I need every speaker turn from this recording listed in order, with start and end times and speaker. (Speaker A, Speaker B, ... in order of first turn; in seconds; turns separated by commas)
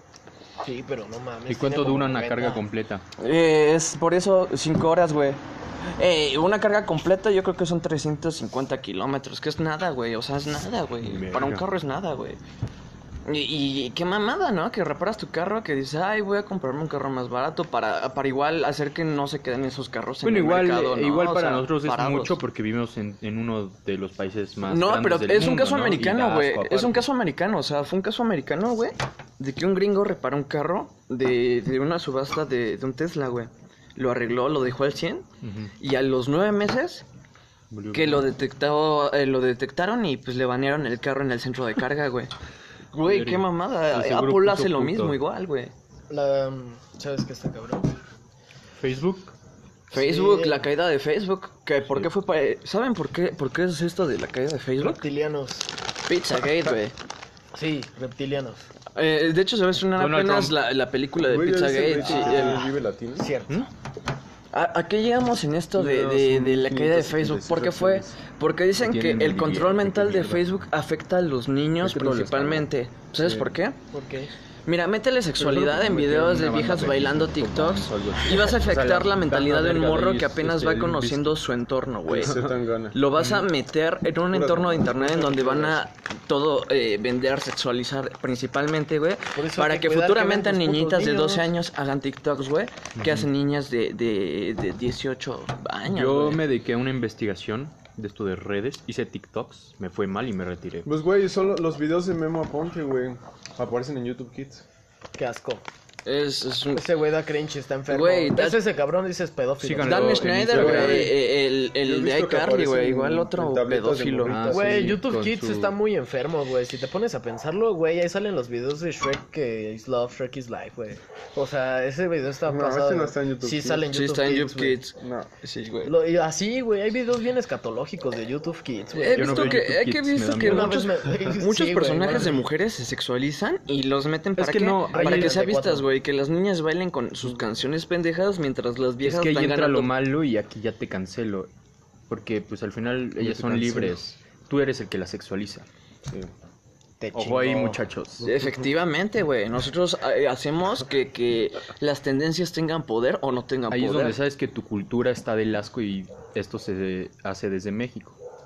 Speaker A: 0.6-2.6, Speaker B: 1.5-3.0, Speaker C: 3.2-12.4, Speaker B: 11.0-11.6, Speaker C: 13.3-22.4, Speaker B: 20.2-27.1, Speaker C: 24.7-35.3, Speaker B: 35.4-35.7, Speaker C: 35.8-37.0, Speaker B: 37.7-38.3, Speaker C: 37.9-42.3, Speaker C: 42.9-45.7, Speaker B: 43.0-45.2, Speaker A: 46.1-47.9, Speaker B: 48.8-49.3, Speaker A: 49.9-50.6, Speaker C: 49.9-55.0, Speaker A: 54.8-55.7, Speaker C: 56.1-57.0, Speaker A: 57.5-58.6, Speaker C: 59.0-62.7, Speaker B: 60.0-60.6, Speaker D: 61.2-63.3, Speaker A: 61.9-63.6, Speaker C: 64.5-73.8, Speaker D: 65.7-68.2, Speaker B: 68.8-70.4, Speaker D: 71.8-73.6, Speaker A: 73.9-74.3, Speaker C: 74.7-82.4, Speaker B: 75.4-81.4, Speaker D: 75.7-76.5, Speaker D: 82.1-83.0, Speaker C: 82.9-96.4, Speaker B: 83.2-83.5, Speaker D: 84.3-85.8, Speaker A: 89.3-91.5, Speaker B: 93.0-93.3, Speaker B: 95.9-100.9, Speaker D: 100.8-104.6, Speaker A: 105.1-105.6, Speaker C: 106.0-106.8, Speaker A: 106.7-111.0, Speaker C: 107.9-108.6, Speaker B: 109.6-111.2, Speaker C: 109.8-114.5, Speaker D: 110.5-111.2, Speaker D: 111.8-115.0, Speaker B: 114.3-115.7, Speaker A: 114.5-124.8, Speaker D: 122.5-123.9, Speaker C: 123.9-125.9, Speaker D: 125.0-125.3, Speaker A: 125.8-129.7, Speaker C: 129.0-139.9, Speaker B: 129.1-130.9, Speaker A: 130.4-132.5, Speaker B: 134.4-135.4, Speaker A: 134.9-135.9, Speaker B: 139.0-141.5, Speaker B: 142.1-145.7, Speaker D: 143.2-144.0, Speaker D: 146.1-146.3, Speaker A: 147.0-147.8, Speaker B: 147.1-148.3, Speaker D: 148.2-148.5, Speaker C: 148.2-154.2, Speaker B: 153.7-158.2